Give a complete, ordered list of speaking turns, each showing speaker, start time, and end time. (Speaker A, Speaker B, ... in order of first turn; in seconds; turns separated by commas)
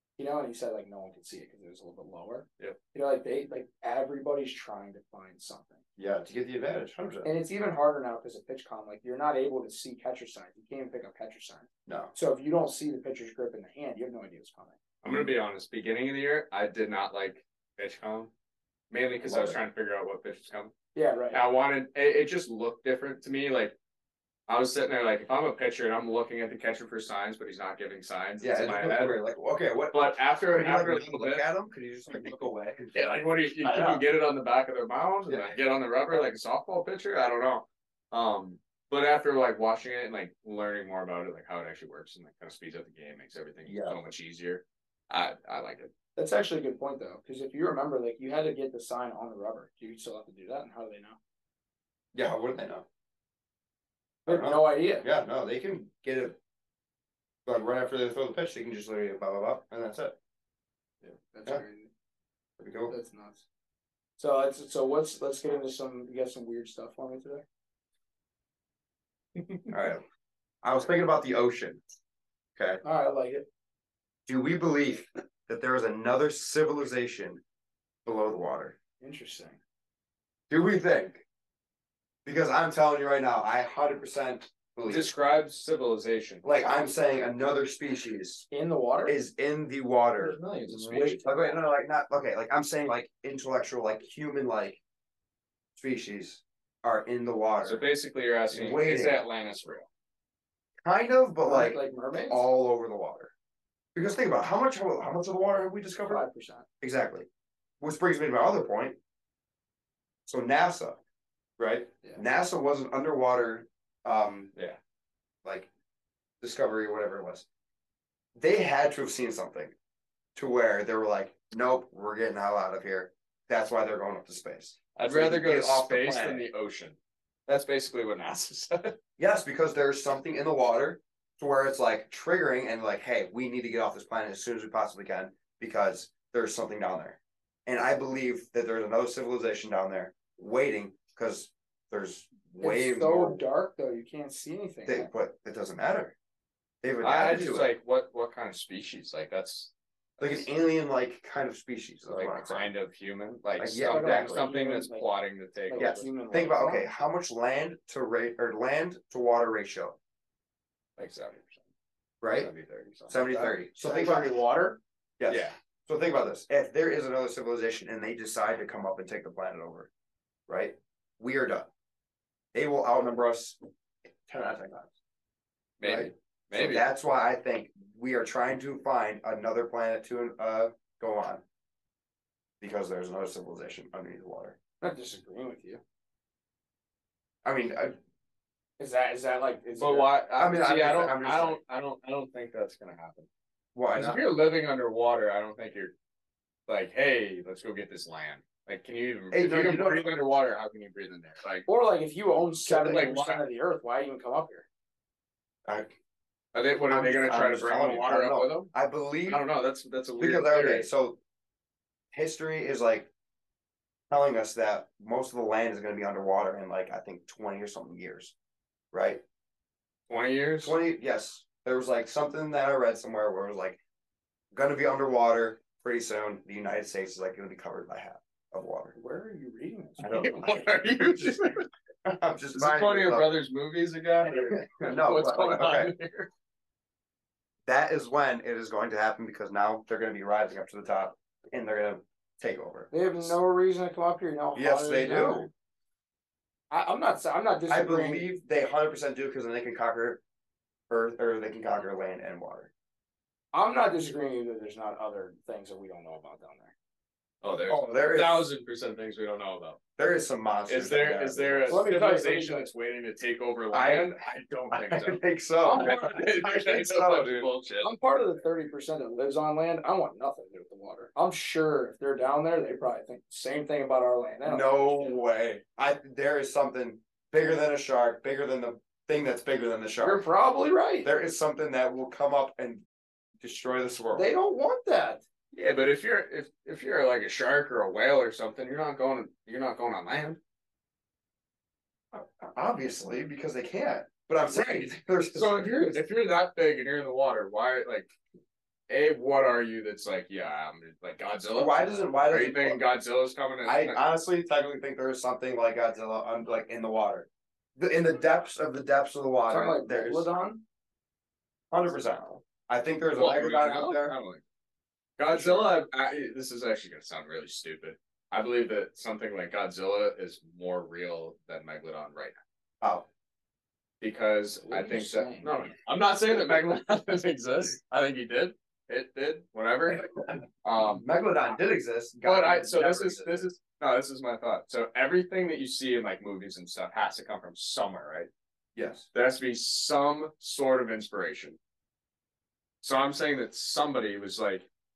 Speaker A: 0.2-5.8, Speaker B: 6.0-7.3, Speaker A: 7.2-14.8, Speaker B: 11.9-12.1, Speaker C: 15.0-18.3, Speaker C: 18.9-20.7, Speaker B: 19.2-19.6, Speaker A: 20.9-21.4, Speaker C: 21.3-23.8, Speaker C: 24.5-29.2, Speaker B: 28.4-34.0, Speaker C: 29.9-31.4, Speaker C: 32.9-45.9, Speaker B: 35.3-35.5, Speaker B: 43.7-44.0, Speaker A: 46.2-51.2, Speaker B: 52.1-52.9, Speaker A: 54.3-55.1, Speaker B: 54.3-56.4, Speaker B: 57.5-60.2, Speaker A: 61.0-61.9, Speaker B: 62.6-62.9, Speaker A: 62.9-63.5, Speaker A: 64.2-67.4, Speaker A: 69.4-69.7, Speaker B: 69.7-70.0, Speaker B: 70.6-71.8, Speaker B: 72.6-72.8, Speaker A: 72.8-73.5, Speaker B: 74.3-77.4, Speaker B: 78.0-78.8, Speaker A: 79.0-79.6, Speaker B: 80.5-81.2, Speaker B: 82.2-85.1, Speaker C: 84.9-86.4, Speaker B: 86.4-88.5, Speaker A: 88.5-89.2, Speaker B: 89.1-94.8, Speaker C: 90.2-91.6, Speaker B: 95.8-97.8, Speaker C: 97.6-99.9, Speaker B: 98.5-99.2, Speaker B: 100.8-103.3, Speaker A: 101.4-102.5, Speaker B: 104.0-106.2, Speaker A: 106.1-106.7, Speaker B: 106.8-107.3, Speaker B: 107.8-109.0, Speaker B: 110.3-111.0, Speaker B: 111.6-114.5, Speaker B: 115.4-115.7, Speaker B: 116.4-117.5, Speaker B: 118.4-119.7, Speaker B: 120.4-126.5, Speaker C: 125.0-129.0, Speaker B: 129.2-143.4, Speaker A: 142.6-145.1, Speaker B: 144.9-146.2, Speaker B: 146.8-147.7, Speaker C: 147.0-150.5, Speaker B: 150.2-152.7, Speaker C: 152.1-156.1, Speaker B: 153.6-154.4, Speaker A: 153.8-155.1, Speaker A: 155.7-156.8, Speaker B: 155.8-160.0, Speaker C: 161.0-161.7, Speaker B: 162.2-162.5, Speaker C: 162.3-163.4, Speaker B: 163.1-164.3, Speaker A: 163.3-164.8, Speaker B: 165.2-169.9, Speaker C: 165.3-165.5, Speaker B: 170.5-171.7, Speaker B: 172.5-173.6, Speaker B: 174.3-174.9, Speaker C: 175.8-176.8, Speaker B: 175.8-181.4, Speaker B: 182.6-184.6, Speaker A: 184.8-185.8, Speaker B: 187.4-188.0, Speaker A: 188.8-190.1, Speaker C: 189.8-193.3, Speaker B: 190.4-191.6, Speaker B: 193.8-194.2, Speaker C: 193.9-195.9, Speaker C: 196.7-201.7, Speaker B: 199.3-200.1, Speaker A: 201.7-204.7, Speaker B: 202.7-203.0, Speaker C: 202.8-203.4, Speaker B: 205.7-205.9, Speaker C: 206.5-208.7, Speaker B: 206.9-209.4, Speaker C: 209.3-210.9, Speaker B: 210.2-211.2, Speaker B: 212.1-213.1, Speaker B: 214.1-218.3, Speaker B: 218.9-219.2, Speaker C: 220.1-220.8, Speaker B: 220.6-223.8, Speaker B: 224.5-228.9, Speaker A: 228.9-230.3, Speaker B: 230.0-231.4, Speaker C: 230.1-231.7, Speaker B: 232.1-233.4, Speaker C: 232.5-236.3, Speaker B: 234.3-235.9, Speaker B: 237.7-243.3, Speaker A: 242.9-245.5, Speaker B: 244.6-245.5, Speaker A: 246.7-248.3, Speaker B: 247.7-250.2, Speaker B: 250.9-252.7, Speaker A: 253.5-256.7, Speaker C: 257.4-259.8, Speaker B: 257.7-258.5, Speaker B: 260.0-261.9, Speaker C: 260.7-267.9, Speaker A: 261.7-262.7, Speaker B: 263.7-264.1, Speaker B: 264.7-267.5, Speaker A: 265.6-266.2, Speaker A: 267.8-275.2, Speaker B: 274.4-280.3, Speaker A: 280.0-281.1, Speaker B: 281.0-282.8, Speaker B: 283.4-284.3, Speaker A: 284.1-285.2, Speaker C: 285.5-290.4, Speaker B: 292.1-296.0, Speaker C: 294.5-298.1, Speaker C: 298.9-304.0, Speaker B: 301.6-302.8, Speaker B: 303.6-310.3, Speaker A: 309.5-310.6, Speaker B: 311.7-314.2, Speaker C: 313.2-314.4, Speaker C: 315.2-322.4, Speaker B: 315.3-315.7, Speaker B: 322.8-323.1, Speaker C: 324.0-331.1, Speaker A: 324.7-325.6, Speaker B: 330.8-333.5, Speaker C: 332.2-338.3, Speaker B: 338.8-339.1, Speaker C: 339.1-341.6, Speaker C: 342.8-344.7